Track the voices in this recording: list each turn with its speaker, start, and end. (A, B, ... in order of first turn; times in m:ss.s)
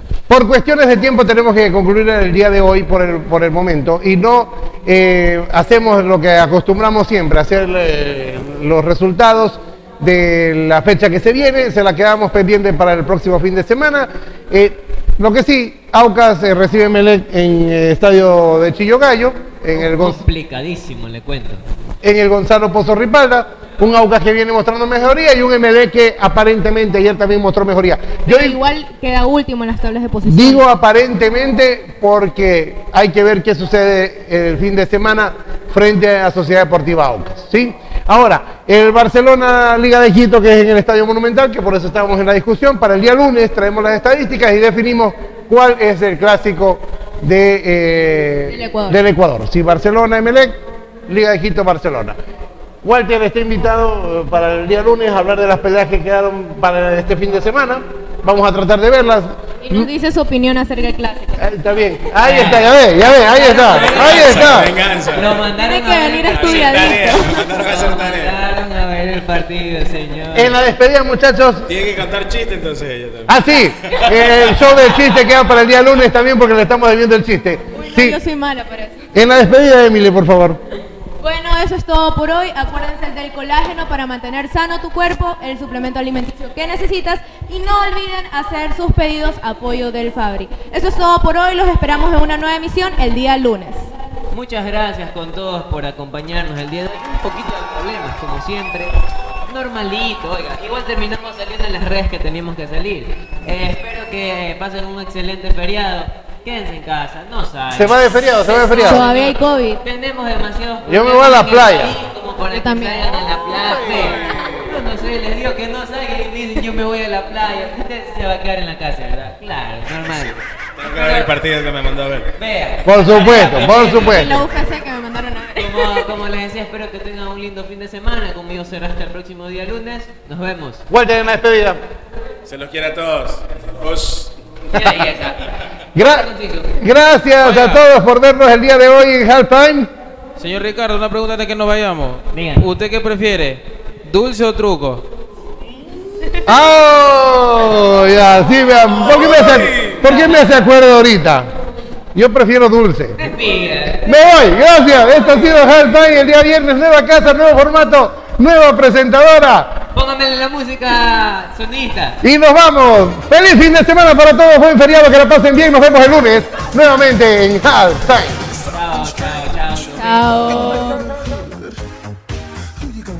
0:00.3-0:20.2 A
0:19.7-0:21.6 B
0:22.0-0:28.6 A
0:28.2-0:30.6 C
0:30.2-0:52.2 A
0:48.5-0:49.0 C
0:52.8-0:59.9 A
0:59.6-1:01.5 C
1:01.4-1:04.7 A
1:02.2-1:10.6 B
1:03.7-1:05.4 D
1:05.5-1:07.6 C
1:06.2-1:08.4 D
1:10.3-1:11.7 A
1:11.7-1:14.8 D
1:13.3-1:18.2 A
1:17.7-1:19.1 C
1:19.1-1:20.6 A
1:21.2-1:33.9 C
1:34.3-1:38.9 B
1:39.5-2:01.3 B
1:47.7-1:49.1 A
1:48.6-1:49.8 C
1:50.8-1:51.9 A
1:52.5-1:53.2 C
1:53.9-1:54.5 C
2:00.1-2:02.3 D
2:02.4-2:04.4 B
2:02.8-2:04.4 A
2:03.6-2:06.1 C
2:05.6-2:10.8 B
2:10.9-2:11.8 A
2:12.4-2:15.0 D
2:14.7-2:16.8 B
2:15.9-2:19.9 A
2:20.4-2:25.0 E
2:22.3-2:22.7 B
2:26.4-2:31.5 A
2:29.4-2:29.9 D
2:32.1-2:33.2 A
2:33.2-2:34.2 B
2:34.0-2:39.8 A
2:39.9-2:42.2 B
2:42.2-2:48.4 A
2:48.6-2:50.9 B
2:49.9-2:51.1 C